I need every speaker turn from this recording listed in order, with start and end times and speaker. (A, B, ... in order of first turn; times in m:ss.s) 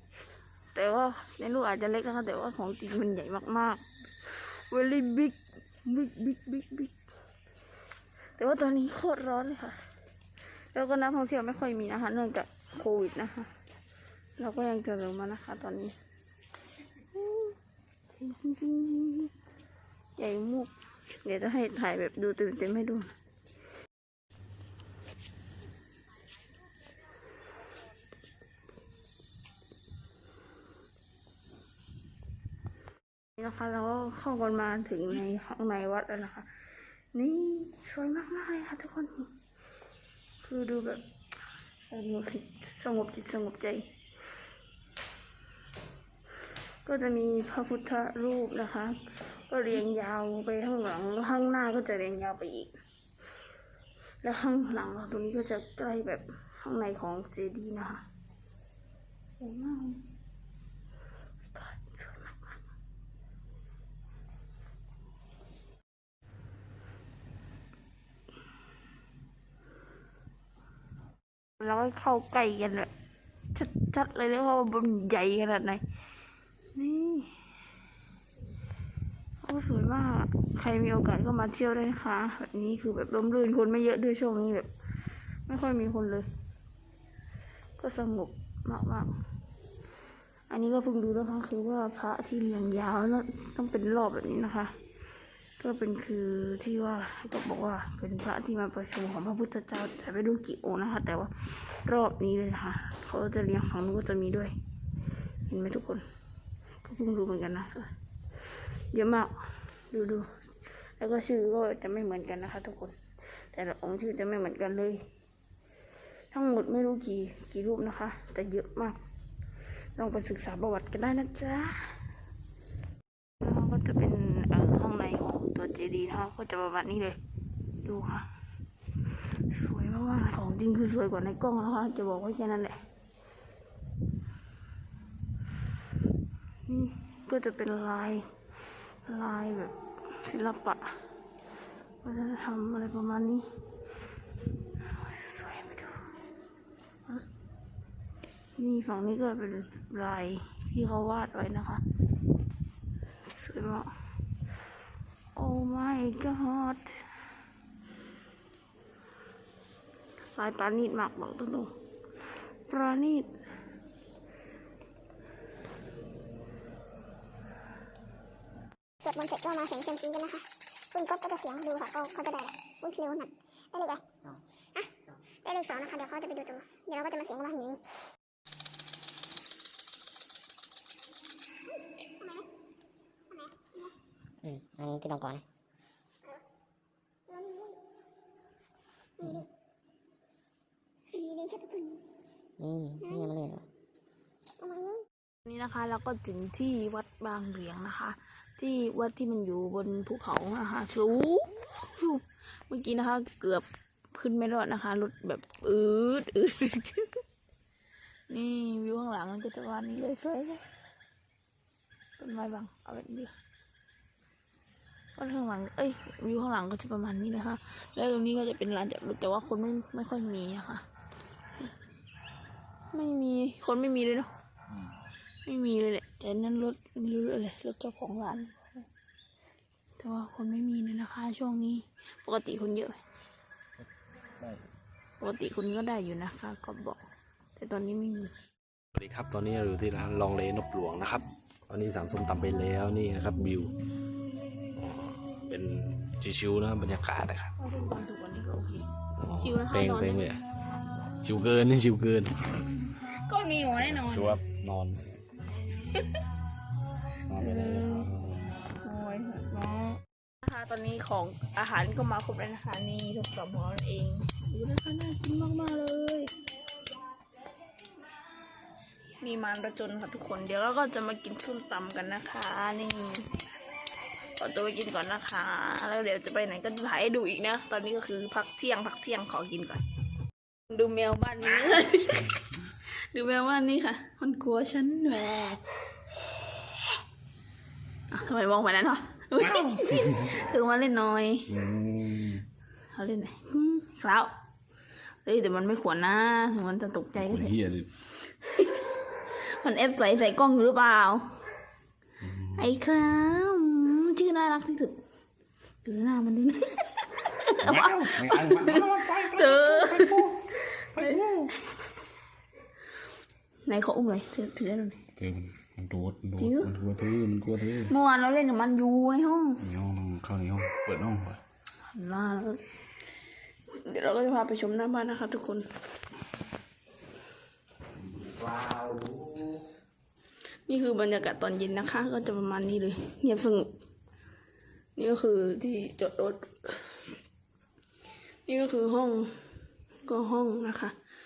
0:00.7-0:06.9 A
0:08.4-0:09.8 A
0:10.7-0:13.5 A
0:14.4-0:15.9 A
0:17.2-0:17.5 A
0:18.1-0:19.3 A
0:20.2-0:23.1 A
0:33.4-0:36.5 A
0:37.1-0:39.3 A
0:40.4-0:41.0 A
0:41.9-0:43.8 A
0:46.8-0:52.7 A
0:54.2-0:58.0 A
0:59.4-1:00.0 A
1:01.5-1:02.6 A
1:11.6-1:12.9 A
1:13.5-1:15.8 A
1:16.7-1:17.4 A
1:19.4-1:24.7 A
1:25.5-1:26.3 A
1:27.8-1:29.1 A
1:30.5-1:34.7 A
1:35.6-1:44.5 A
1:45.5-1:46.0 A
1:46.8-1:47.9 A
1:48.9-1:49.3 A
1:49.9-1:50.3 A
1:51.0-1:52.9 A
1:53.5-1:55.0 A
1:56.3-1:59.0 A
2:00.0-2:01.9 A
2:03.4-2:07.2 A
2:07.8-2:08.3 A
2:09.5-2:12.8 A
2:16.6-2:18.2 A
2:19.0-2:20.8 A
2:22.0-2:23.4 A
2:24.9-2:26.1 A
2:28.6-2:31.8 A
2:33.2-2:33.9 A
2:35.3-2:37.0 A
2:40.4-2:41.7 A
2:42.7-2:43.3 A
2:49.0-2:54.1 B
2:54.7-2:57.8 B
3:01.7-3:02.4 B
3:03.3-3:03.9 B
3:04.4-3:05.4 C
3:07.3-3:07.8 B
3:09.2-3:09.4 B
3:11.1-3:12.0 B
3:12.6-3:13.6 C
3:13.0-3:13.3 B
3:14.6-3:15.0 B
3:15.4-3:27.2 A
3:28.3-3:30.6 A
3:32.2-3:33.3 A
3:35.1-3:40.8 A
3:42.9-3:44.3 A
3:45.4-3:48.6 A
3:50.0-3:53.0 A
3:55.2-3:57.0 A
3:57.6-3:58.3 A
3:58.9-4:03.7 D
4:05.4-4:07.5 D
4:07.6-4:10.4 A
4:09.2-4:10.4 D
4:11.2-4:12.6 D
4:13.1-4:14.4 A
4:14.1-4:15.2 D
4:17.3-4:18.6 D
4:17.4-4:18.1 A
4:18.8-4:26.3 A
4:29.2-4:33.3 A
4:34.4-4:39.8 A
4:40.7-4:42.3 A
4:43.1-4:45.6 A
4:48.1-4:51.5 A
4:51.5-4:52.4 D
4:52.9-4:54.3 A
4:55.2-4:57.5 A
4:57.2-4:57.9 D
4:58.4-4:58.9 A
4:59.5-5:01.3 A
5:02.5-5:05.0 A
5:05.8-5:11.5 A
5:07.6-5:10.4 D
5:11.0-5:11.2 D
5:13.6-5:15.0 A
5:15.2-5:17.9 D
5:16.3-5:16.7 A
5:17.8-5:19.6 A
5:19.6-5:21.4 D
5:21.9-5:22.6 A
5:23.7-5:25.6 A
5:28.2-5:29.2 D
5:30.7-5:33.7 A
5:35.0-5:36.9 A
5:38.4-5:39.3 A
5:40.0-5:40.9 A